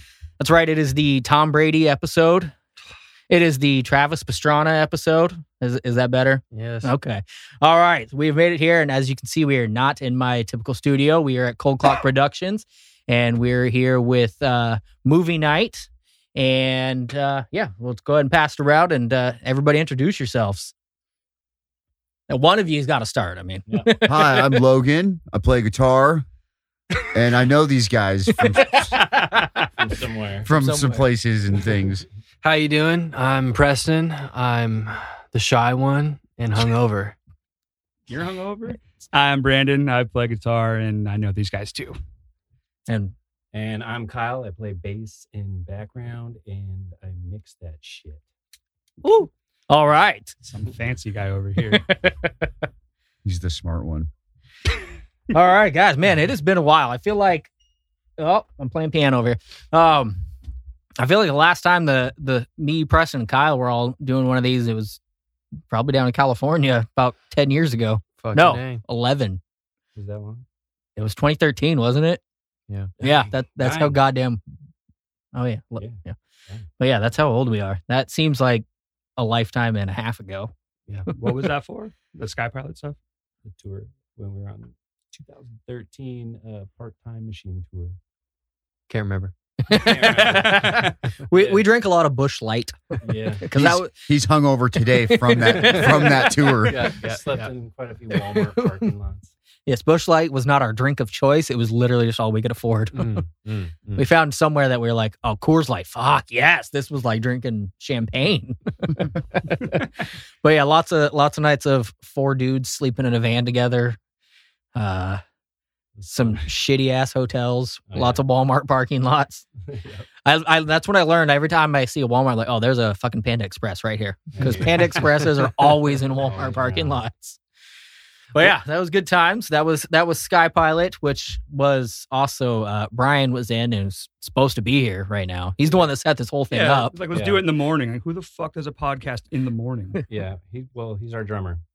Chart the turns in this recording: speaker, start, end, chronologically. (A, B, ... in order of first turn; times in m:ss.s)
0:00.4-0:02.5 A
0:03.3-0:20.7 A
0:06.5-0:06.9 B
0:22.3-0:24.5 A
0:23.7-0:24.0 C
0:24.0-0:26.2 D
0:27.1-0:29.0 D
0:28.6-0:29.7 A
0:29.8-0:30.5 C
0:30.4-0:32.0 D
0:30.5-0:31.1 A
0:32.4-0:37.2 B
0:38.1-0:42.0 E
0:42.9-0:43.1 A
0:43.5-0:48.2 C
0:49.0-0:50.4 A
0:50.5-0:51.8 E
0:51.7-0:52.5 A
0:53.2-0:54.1 D
0:55.3-0:57.5 A
0:58.2-1:00.2 A
1:01.0-1:05.0 A
1:05.7-1:09.4 A
1:08.2-1:08.8 B
1:09.9-1:10.4 C
1:11.0-1:12.2 A
1:13.0-1:14.0 C
1:13.0-1:14.4 A
1:15.3-1:16.2 A
1:16.8-1:18.6 A
1:19.2-1:20.5 A
1:21.2-1:23.0 E
1:23.4-1:28.0 C
1:28.9-1:29.3 B
1:29.6-1:33.9 A
1:29.7-1:31.7 C
1:33.0-1:33.5 C
1:33.5-1:36.8 D
1:35.1-1:36.7 A
1:36.7-1:37.5 B
1:36.9-1:39.3 C
1:38.1-1:38.9 A
1:39.6-1:43.2 A
1:42.9-1:44.0 B
1:44.0-1:54.0 A
1:54.7-1:55.2 A
1:56.0-1:56.4 C
1:56.1-1:59.4 A
1:57.9-1:58.2 C
1:59.7-2:00.0 C
2:00.2-2:07.4 A
2:04.4-2:04.9 C
2:06.2-2:07.0 C
2:08.3-2:16.9 A
2:16.5-2:20.0 E
2:17.1-2:17.4 C
2:20.1-2:21.6 C